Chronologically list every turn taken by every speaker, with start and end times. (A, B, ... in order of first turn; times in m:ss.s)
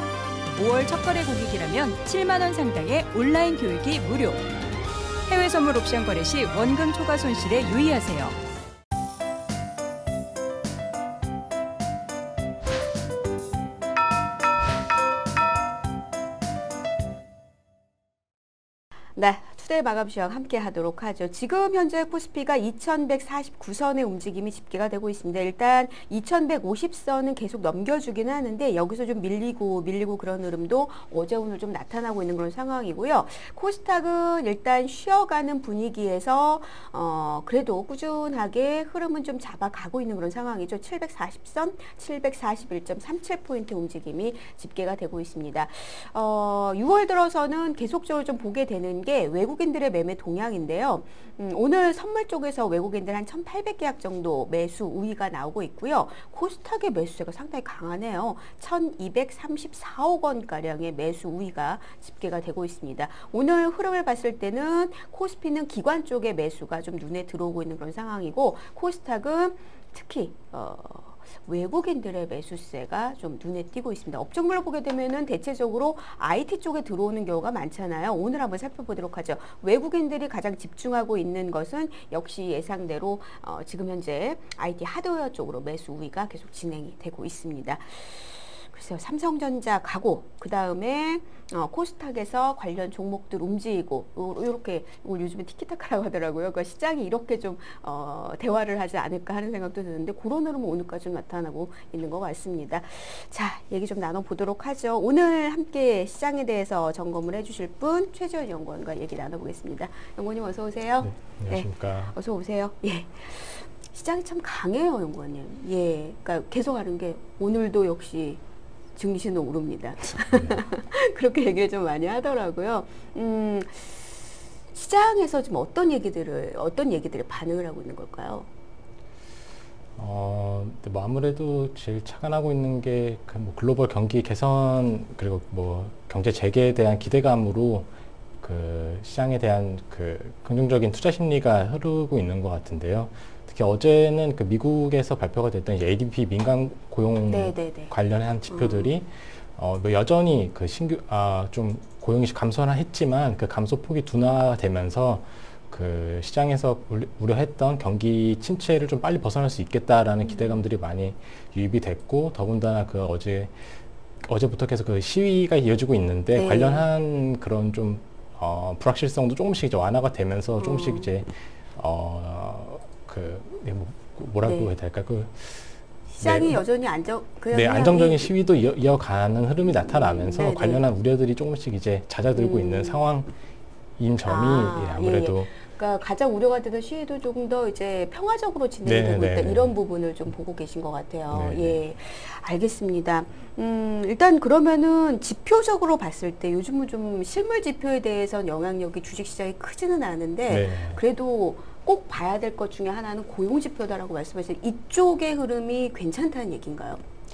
0:00.5-0:04.4 A
0:05.3-0:08.4 A
0:19.2-1:58.4 B
1:51.0-1:52.1 C
1:59.0-2:08.5 B
2:00.3-2:00.6 C
2:10.0-2:17.9 C
2:18.4-2:43.5 C
2:27.3-2:27.9 B
2:28.5-2:28.9 B
2:40.2-2:40.6 B
2:44.2-2:56.6 C
2:46.3-2:46.9 B
2:50.6-2:51.1 B
2:54.4-2:54.7 B
2:56.1-2:58.3 B
2:57.5-3:03.3 C
2:59.6-3:00.9 B
3:02.3-3:03.1 B
3:04.0-3:05.5 C
3:04.2-3:27.0 B
3:08.8-3:09.7 C
3:11.3-3:11.8 C
3:20.5-3:21.0 C